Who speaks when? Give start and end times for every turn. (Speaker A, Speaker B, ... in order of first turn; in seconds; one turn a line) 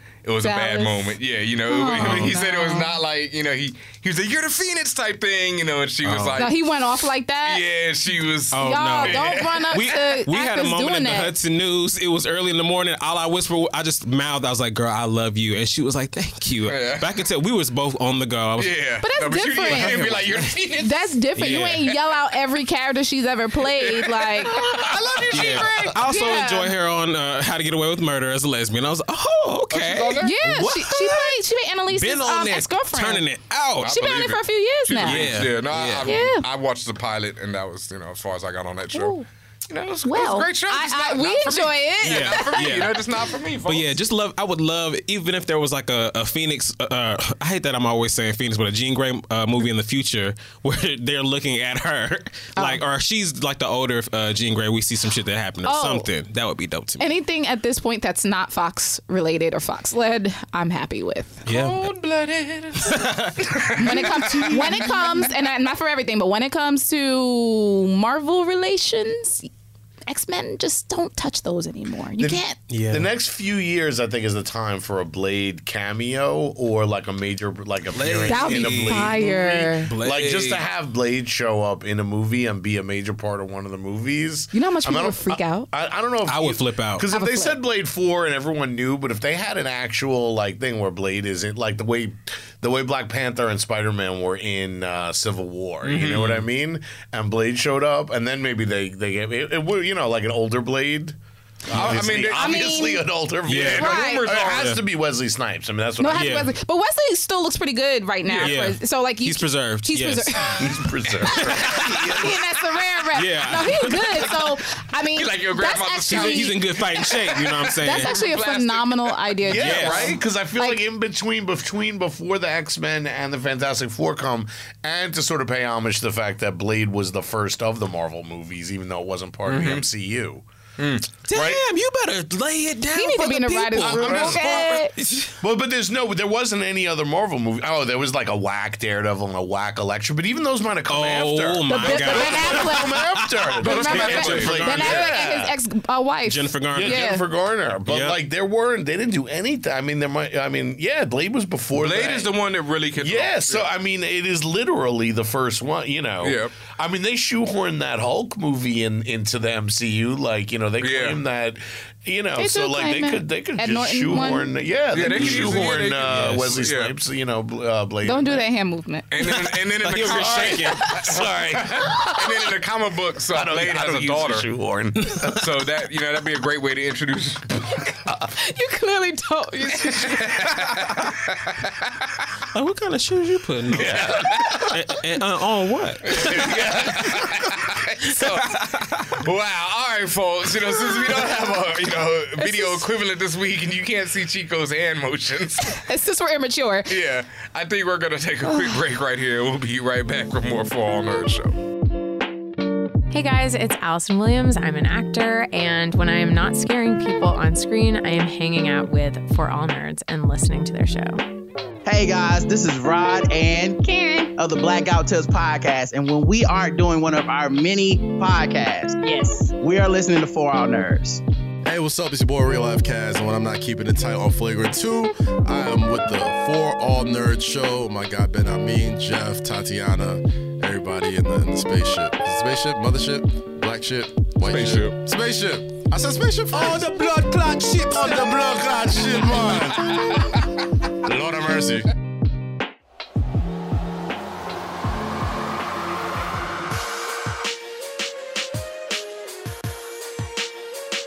Speaker A: 0.2-6.6
Speaker B: 0.4-3.0
Speaker C: 1.9-2.4
Speaker C: 6.0-6.5
Speaker B: 6.4-7.6
Speaker A: 7.5-9.9
Speaker C: 8.5-18.7
Speaker B: 8.6-11.3
Speaker A: 16.7-17.2
Speaker A: 18.6-22.0
Speaker B: 19.0-20.1
Speaker C: 19.6-20.6
Speaker B: 20.8-24.6
Speaker C: 21.4-21.9
Speaker A: 23.8-26.4
Speaker D: 25.1-25.7
Speaker C: 25.3-34.1
Speaker B: 26.1-26.7
Speaker A: 29.7-30.4
Speaker B: 30.2-33.2
Speaker B: 33.8-35.3
Speaker A: 33.8-39.2
Speaker C: 35.0-36.2
Speaker B: 36.0-36.5
Speaker B: 38.9-39.2
Speaker A: 39.7-44.0
Speaker B: 40.0-43.0
Speaker C: 42.0-43.0
Speaker C: 43.7-57.1
Speaker B: 52.6-52.8
Speaker B: 55.6-56.1
Speaker B: 57.0-61.4
Speaker C: 61.5-61.8
Speaker A: 61.5-65.3
Speaker C: 62.8-64.9
Speaker B: 63.8-69.5
Speaker B: 70.1-72.6
Speaker D: 72.2-106.5
Speaker C: 72.7-73.1
Speaker C: 77.9-79.2
Speaker B: 78.3-79.9
Speaker C: 79.9-80.7
Speaker B: 84.5-85.7
Speaker C: 86.3-87.1
Speaker B: 87.1-87.6
Speaker A: 95.8-96.5
Speaker A: 101.7-103.0
Speaker B: 102.3-103.1
Speaker C: 103.5-104.8
Speaker A: 103.5-104.8
Speaker B: 103.7-104.3
Speaker B: 106.0-116.6
Speaker C: 106.1-106.5
Speaker A: 108.3-108.5
Speaker C: 108.4-110.5
Speaker D: 110.6-112.4
Speaker C: 111.3-112.2
Speaker A: 111.3-112.1
Speaker C: 113.1-114.4
Speaker A: 115.1-119.5
Speaker C: 116.1-118.2
Speaker B: 117.8-120.8
Speaker D: 119.5-130.4
Speaker C: 119.5-120.2
Speaker A: 129.5-129.8
Speaker A: 130.8-131.1
Speaker C: 131.3-135.4
Speaker D: 131.3-131.6
Speaker B: 132.9-134.9
Speaker D: 133.8-134.8
Speaker D: 135.4-145.6
Speaker C: 140.9-145.3
Speaker B: 141.7-143.0
Speaker B: 143.6-147.2
Speaker A: 143.6-145.1
Speaker C: 146.2-147.2
Speaker D: 146.7-152.3
Speaker C: 147.9-148.2
Speaker A: 151.8-153.7
Speaker D: 153.0-168.5
Speaker A: 156.2-156.6
Speaker A: 160.8-161.2
Speaker B: 162.4-164.5
Speaker A: 164.9-166.9
Speaker C: 165.1-166.6
Speaker B: 168.0-169.2
Speaker A: 169.1-174.5
Speaker C: 169.4-170.9
Speaker D: 170.0-172.5
Speaker D: 173.3-175.4
Speaker C: 175.0-175.3
Speaker A: 175.3-177.7
Speaker B: 178.3-180.3
Speaker A: 179.8-181.9
Speaker C: 182.5-186.4
Speaker D: 183.7-184.8
Speaker A: 184.0-184.7
Speaker A: 186.1-195.8
Speaker D: 186.2-187.3
Speaker C: 188.2-189.0
Speaker B: 192.4-192.8
Speaker B: 195.7-196.9
Speaker A: 196.9-201.6
Speaker E: 203.1-211.2
Speaker F: 211.8-221.2
Speaker G: 221.6-240.4
Speaker A: 234.4-235.0
Speaker D: 236.5-237.3
Speaker D: 237.9-240.0
Speaker G: 241.0-241.9